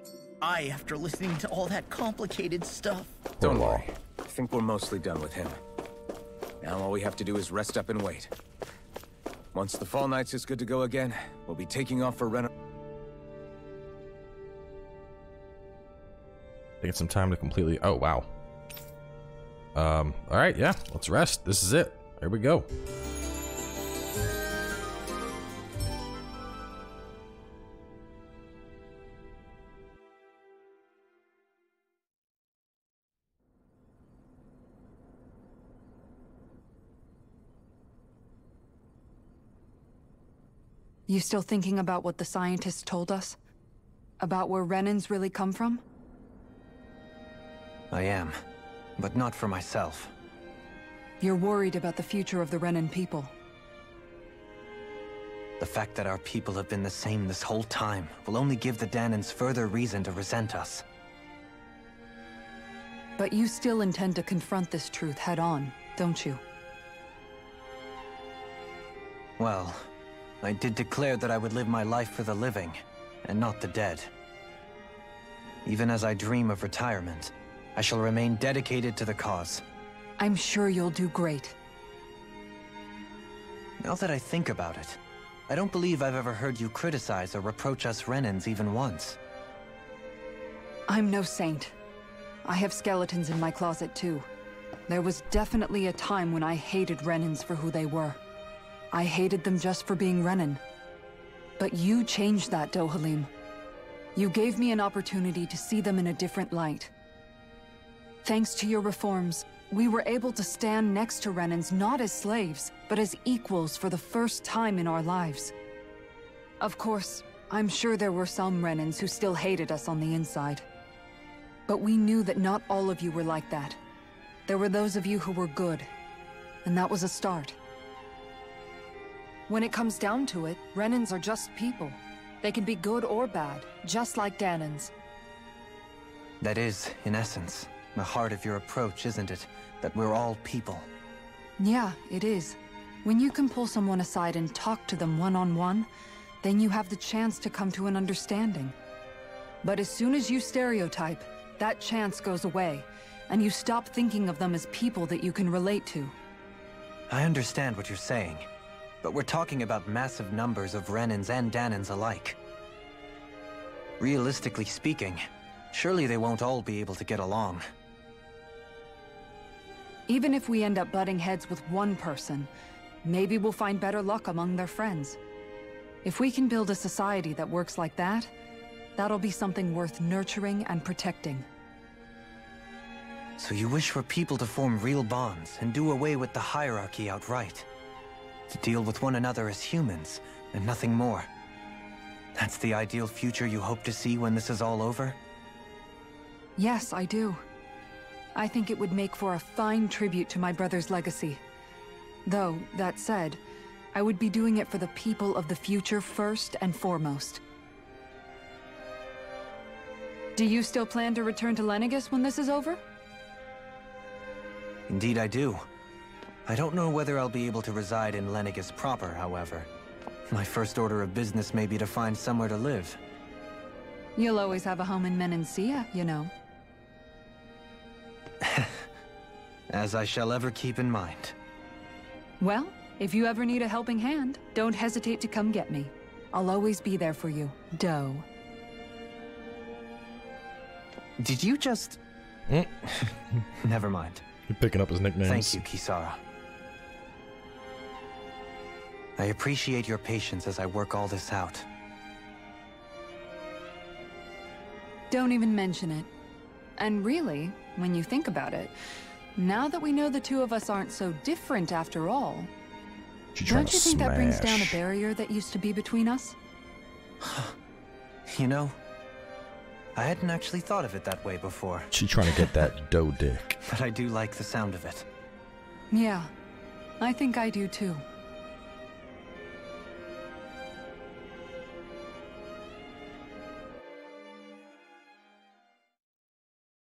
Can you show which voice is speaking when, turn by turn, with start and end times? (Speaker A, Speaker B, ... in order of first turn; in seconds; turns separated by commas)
Speaker A: 0.4-3.2, Speaker B: 3.4-3.9, Speaker C: 3.4-5.6, Speaker C: 6.6-8.3, Speaker C: 9.5-12.5, Speaker B: 16.8-18.3, Speaker B: 19.8-22.7, Speaker D: 41.1-43.4, Speaker D: 44.2-45.8, Speaker E: 47.9-48.4, Speaker E: 49.0-50.1, Speaker D: 51.2-53.3, Speaker E: 55.6-60.8, Speaker D: 63.2-66.4, Speaker E: 69.4-69.9, Speaker E: 70.4-74.1, Speaker E: 75.7-79.6, Speaker D: 80.2-81.6, Speaker E: 83.8-89.2, Speaker D: 90.9-91.8, Speaker D: 92.5-94.3, Speaker D: 94.9-98.2, Speaker D: 98.9-100.6, Speaker D: 101.6-103.3, Speaker D: 104.2-106.9, Speaker D: 108.2-115.5, Speaker D: 116.6-120.7, Speaker D: 121.7-123.8, Speaker D: 124.5-125.9, Speaker D: 126.6-127.6, Speaker D: 129.5-134.9, Speaker E: 136.4-140.9, Speaker D: 141.6-145.9, Speaker D: 146.4-148.8, Speaker D: 149.6-156.2, Speaker E: 157.1-158.5, Speaker E: 159.0-162.4, Speaker E: 164.0-167.6, Speaker D: 170.1-172.5, Speaker D: 173.0-175.2, Speaker D: 176.0-178.3, Speaker D: 179.0-181.5, Speaker E: 183.4-187.7, Speaker E: 188.5-191.3, Speaker E: 192.4-195.2, Speaker D: 196.6-197.4, Speaker D: 198.3-201.4, Speaker D: 202.2-203.4, Speaker D: 203.9-207.4, Speaker D: 210.4-212.8, Speaker E: 214.9-215.7, Speaker E: 216.5-219.7, Speaker E: 220.3-223.0, Speaker D: 224.2-226.3, Speaker E: 228.4-228.8, Speaker E: 229.7-231.3, Speaker D: 232.4-238.3, Speaker E: 241.2-242.0, Speaker B: 242.5-243.4, Speaker E: 243.7-244.2, Speaker B: 244.5-245.6, Speaker E: 245.2-246.2, Speaker E: 249.2-251.7, Speaker D: 255.1-256.1, Speaker D: 256.8-258.7, Speaker D: 259.4-262.5, Speaker B: 263.4-264.8, Speaker D: 263.4-266.4, Speaker E: 267.2-267.5, Speaker E: 268.3-268.8, Speaker E: 270.0-272.7, Speaker B: 271.9-273.6, Speaker E: 273.7-275.1, Speaker D: 275.9-276.3, Speaker D: 277.0-278.0